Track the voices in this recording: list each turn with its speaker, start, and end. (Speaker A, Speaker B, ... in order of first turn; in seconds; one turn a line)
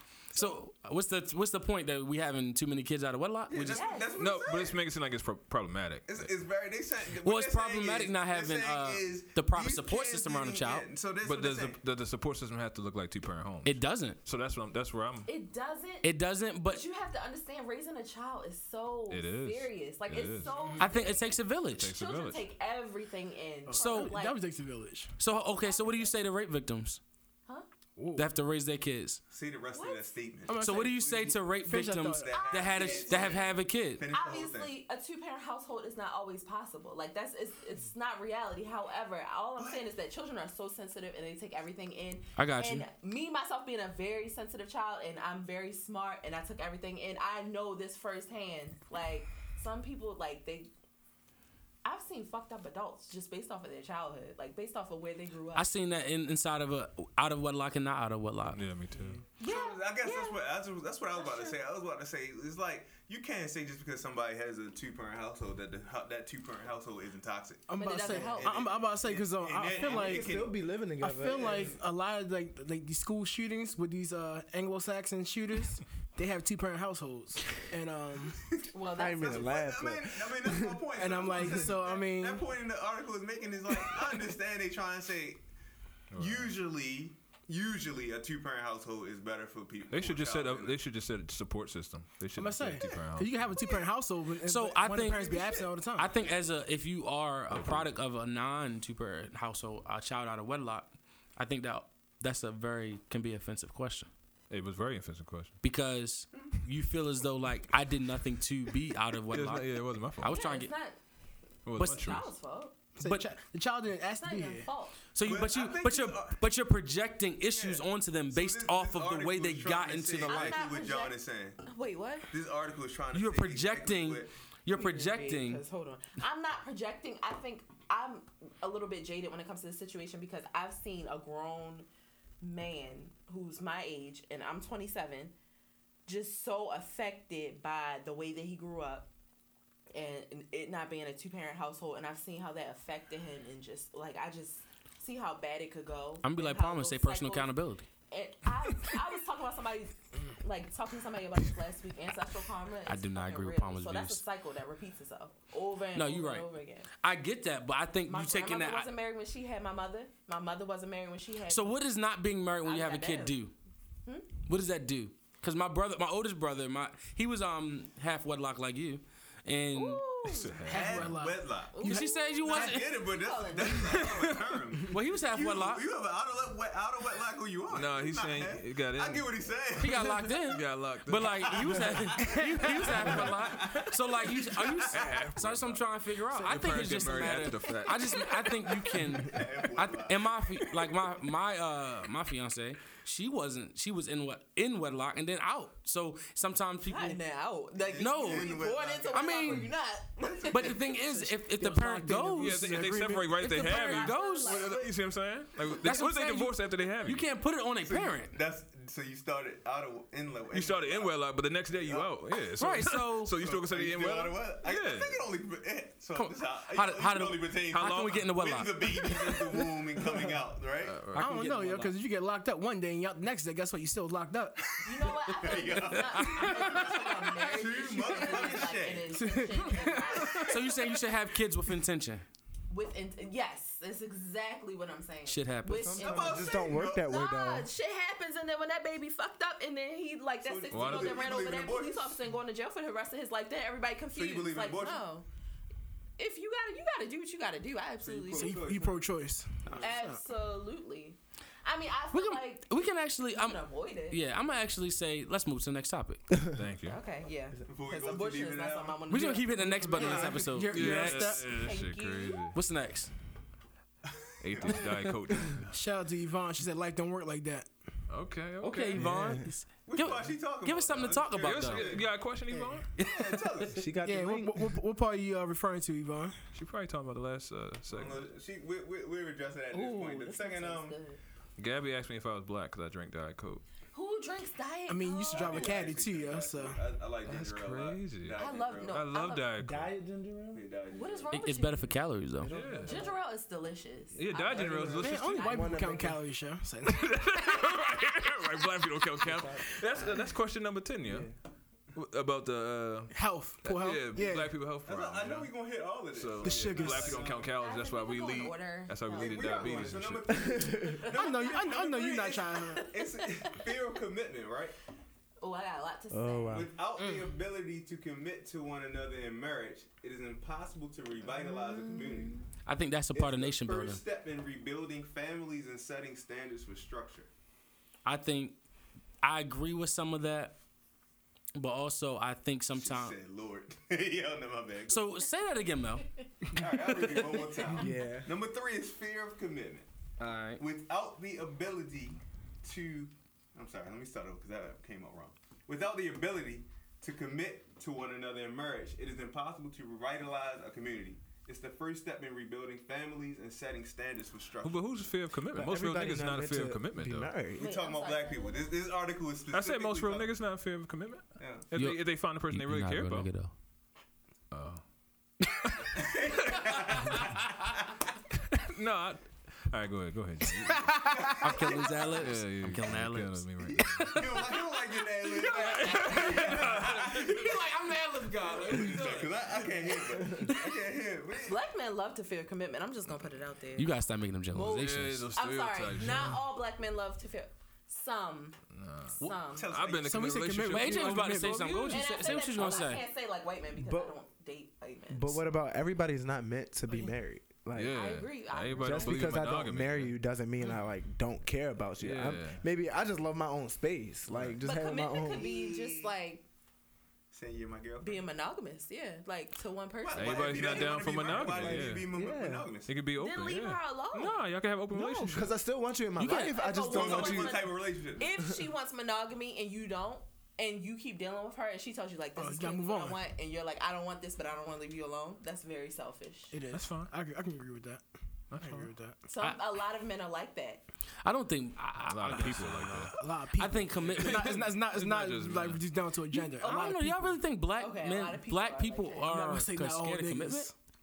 Speaker A: 0.3-4.0
Speaker B: 3.5-4.8
Speaker C: 3.7-4.4
Speaker D: 4.2-6.3
Speaker B: 6.0-11.8
Speaker A: 7.1-10.9
Speaker D: 11.2-15.3
Speaker A: 13.6-14.2
Speaker C: 15.2-24.4
Speaker A: 16.0-16.8
Speaker D: 19.1-20.5
Speaker B: 20.5-20.9
Speaker A: 20.8-21.9
Speaker D: 21.7-22.4
Speaker E: 23.7-25.1
Speaker A: 23.7-24.1
Speaker A: 25.2-27.0
Speaker C: 25.6-26.2
Speaker E: 27.9-28.3
Speaker A: 28.1-29.2
Speaker B: 29.3-31.3
Speaker C: 29.7-30.1
Speaker E: 30.5-32.4
Speaker A: 30.5-34.0
Speaker B: 32.1-33.4
Speaker C: 32.3-50.7
Speaker B: 34.0-34.7
Speaker B: 39.6-39.8
Speaker A: 42.4-42.9
Speaker C: 51.8-55.7
Speaker A: 55.5-58.6
Speaker D: 58.5-59.2
Speaker C: 59.4-60.4
Speaker B: 59.4-70.6
Speaker C: 61.1-61.6
Speaker E: 67.7-70.4
Speaker C: 67.8-68.6
Speaker F: 69.8-71.8
Speaker E: 71.0-78.4
Speaker B: 71.2-71.8
Speaker B: 78.4-85.4
Speaker C: 78.7-79.6
Speaker F: 79.0-80.8
Speaker E: 80.9-82.5
Speaker D: 86.1-86.6
Speaker B: 86.2-90.8
Speaker D: 89.9-93.5
Speaker E: 92.3-96.1
Speaker A: 94.4-95.4
Speaker B: 95.0-95.7
Speaker A: 96.0-104.1
Speaker D: 97.5-97.9
Speaker D: 104.5-105.6
Speaker A: 105.6-110.7
Speaker D: 109.3-110.4
Speaker C: 110.2-111.0
Speaker D: 111.7-112.3
Speaker A: 111.8-112.1
Speaker C: 111.8-112.7
Speaker E: 113.0-114.7
Speaker A: 113.0-113.2
Speaker C: 114.2-115.0
Speaker A: 115.1-120.6
Speaker B: 115.2-116.4
Speaker B: 117.5-121.6
Speaker C: 120.2-122.3
Speaker B: 122.3-124.3
Speaker A: 123.1-125.6
Speaker C: 124.7-131.9
Speaker C: 132.4-135.3
Speaker C: 136.1-139.1
Speaker C: 139.9-147.5
Speaker A: 146.2-147.8
Speaker C: 148.1-156.9
Speaker A: 152.9-154.2
Speaker A: 155.9-158.9
Speaker C: 158.1-161.8
Speaker A: 161.5-163.5
Speaker C: 162.6-163.3
Speaker A: 164.4-170.1
Speaker C: 169.7-170.6
Speaker D: 170.2-171.1
Speaker E: 170.6-172.2
Speaker B: 170.7-171.9
Speaker C: 171.7-174.1
Speaker A: 171.8-173.0
Speaker B: 172.4-180.4
Speaker A: 174.9-175.9
Speaker D: 177.7-179.3
Speaker A: 179.8-197.2
Speaker D: 180.4-182.1
Speaker B: 181.5-185.3
Speaker E: 182.2-182.5
Speaker D: 184.9-185.8
Speaker D: 186.3-188.4
Speaker B: 188.7-190.9
Speaker C: 196.8-200.9
Speaker B: 197.7-201.0
Speaker A: 198.0-199.7
Speaker A: 200.5-202.8
Speaker E: 201.0-203.5
Speaker D: 202.4-207.3
Speaker A: 203.3-204.6
Speaker C: 203.5-204.9
Speaker A: 205.8-208.3
Speaker B: 207.8-212.3
Speaker D: 210.5-215.2
Speaker A: 212.6-213.3
Speaker B: 213.3-221.0
Speaker A: 216.1-219.6
Speaker D: 217.7-218.3
Speaker D: 220.8-221.5
Speaker E: 221.1-224.7
Speaker A: 221.1-221.9
Speaker B: 224.7-230.8
Speaker C: 224.8-230.6
Speaker A: 225.5-226.9
Speaker E: 227.8-228.4
Speaker E: 229.1-230.5
Speaker A: 230.4-232.2
Speaker C: 232.7-245.2
Speaker A: 235.3-236.0
Speaker F: 235.8-237.7
Speaker B: 236.0-237.1
Speaker B: 240.4-242.2
Speaker D: 240.7-241.3
Speaker B: 244.1-245.0
Speaker C: 246.2-248.6
Speaker B: 248.0-249.0
Speaker E: 248.3-250.2
Speaker B: 249.6-249.9
Speaker C: 249.8-252.8
Speaker A: 252.1-256.2
Speaker C: 253.3-254.2
Speaker D: 256.5-257.0
Speaker C: 256.9-260.5
Speaker B: 257.7-259.0
Speaker A: 259.1-261.4
Speaker E: 259.9-261.6
Speaker B: 259.9-260.5
Speaker D: 260.7-262.6
Speaker C: 261.4-262.6
Speaker A: 262.5-263.1
Speaker B: 264.1-264.8
Speaker D: 264.4-265.7
Speaker A: 264.8-265.1
Speaker E: 265.7-267.7
Speaker D: 268.1-269.1
Speaker A: 268.6-271.9
Speaker F: 269.0-269.5
Speaker B: 269.8-272.1
Speaker D: 271.1-272.9
Speaker A: 273.0-273.8
Speaker B: 273.0-273.9
Speaker F: 273.7-274.8
Speaker E: 274.0-276.4
Speaker D: 276.5-278.3
Speaker B: 277.9-281.0
Speaker C: 279.7-281.2
Speaker D: 281.6-283.6
Speaker C: 283.9-285.8
Speaker E: 284.9-286.8
Speaker B: 285.3-289.0
Speaker D: 287.2-289.9
Speaker C: 288.4-289.5
Speaker F: 289.6-290.6
Speaker B: 290.5-291.3
Speaker C: 290.9-292.0
Speaker A: 291.3-292.5
Speaker F: 292.4-293.2
Speaker D: 292.5-293.0
Speaker C: 292.8-295.5
Speaker D: 294.1-295.7
Speaker F: 294.5-296.2
Speaker B: 294.6-295.0
Speaker E: 295.0-297.1
Speaker D: 296.9-301.3
Speaker F: 299.2-300.1
Speaker F: 301.1-301.3
Speaker D: 301.9-305.5
Speaker E: 303.1-304.7
Speaker B: 304.8-307.5
Speaker D: 306.1-310.6
Speaker E: 306.4-307.2
Speaker C: 307.4-309.7
Speaker B: 309.1-314.7
Speaker F: 310.3-311.1
Speaker C: 310.9-311.6
Speaker E: 311.0-312.9
Speaker C: 312.7-313.7
Speaker C: 315.4-316.7
Speaker F: 316.1-316.7
Speaker B: 316.5-322.4
Speaker C: 321.4-322.4
Speaker A: 322.6-324.0
Speaker B: 323.1-327.3
Speaker A: 328.0-328.6
Speaker A: 329.2-330.6
Speaker A: 331.5-333.1
Speaker B: 332.7-335.2
Speaker A: 334.9-336.1
Speaker B: 336.5-339.9
Speaker F: 337.8-338.3
Speaker A: 340.2-340.6
Speaker B: 340.6-354.9
Speaker D: 354.6-357.3
Speaker F: 355.5-357.7
Speaker B: 357.5-360.3
Speaker C: 357.6-358.7
Speaker D: 359.5-363.3
Speaker B: 361.4-361.7
Speaker A: 361.7-363.5
Speaker D: 364.5-364.8
Speaker D: 365.6-365.9
Speaker B: 365.8-367.9
Speaker D: 366.6-367.2
Speaker D: 368.5-371.1
Speaker E: 370.6-371.8
Speaker B: 371.1-372.4
Speaker A: 371.3-374.6
Speaker D: 372.2-374.2
Speaker B: 373.8-377.7
Speaker A: 375.2-379.7
Speaker D: 375.7-377.4
Speaker B: 378.4-381.6
Speaker F: 380.1-380.5
Speaker C: 381.4-383.9
Speaker A: 383.8-385.3
Speaker C: 384.5-388.6
Speaker D: 384.6-386.4
Speaker D: 388.7-392.8
Speaker C: 389.1-389.7
Speaker B: 389.5-390.3
Speaker E: 390.1-391.8
Speaker A: 390.7-393.0
Speaker C: 391.9-395.4
Speaker F: 393.8-394.2
Speaker F: 395.1-397.9
Speaker D: 397.7-400.1
Speaker C: 397.9-399.4
Speaker F: 398.8-405.5
Speaker D: 402.0-402.6
Speaker D: 404.3-404.6
Speaker C: 404.6-406.4
Speaker B: 405.2-406.1
Speaker B: 407.3-408.3
Speaker C: 408.0-411.1
Speaker B: 410.0-412.9
Speaker D: 410.1-412.1
Speaker F: 411.3-412.7
Speaker D: 412.9-415.5
Speaker C: 413.2-414.4
Speaker F: 414.9-417.7
Speaker A: 416.2-416.5
Speaker C: 416.2-426.5
Speaker B: 416.9-418.3
Speaker E: 422.4-423.2
Speaker E: 426.5-428.0
Speaker D: 426.7-427.1
Speaker D: 428.5-428.9
Speaker E: 428.5-429.2
Speaker C: 429.3-430.8
Speaker A: 431.2-434.7
Speaker D: 432.0-433.2
Speaker E: 432.9-437.4
Speaker D: 434.0-435.8
Speaker A: 436.6-440.7
Speaker C: 436.6-437.0
Speaker C: 437.8-439.3
Speaker E: 439.3-440.7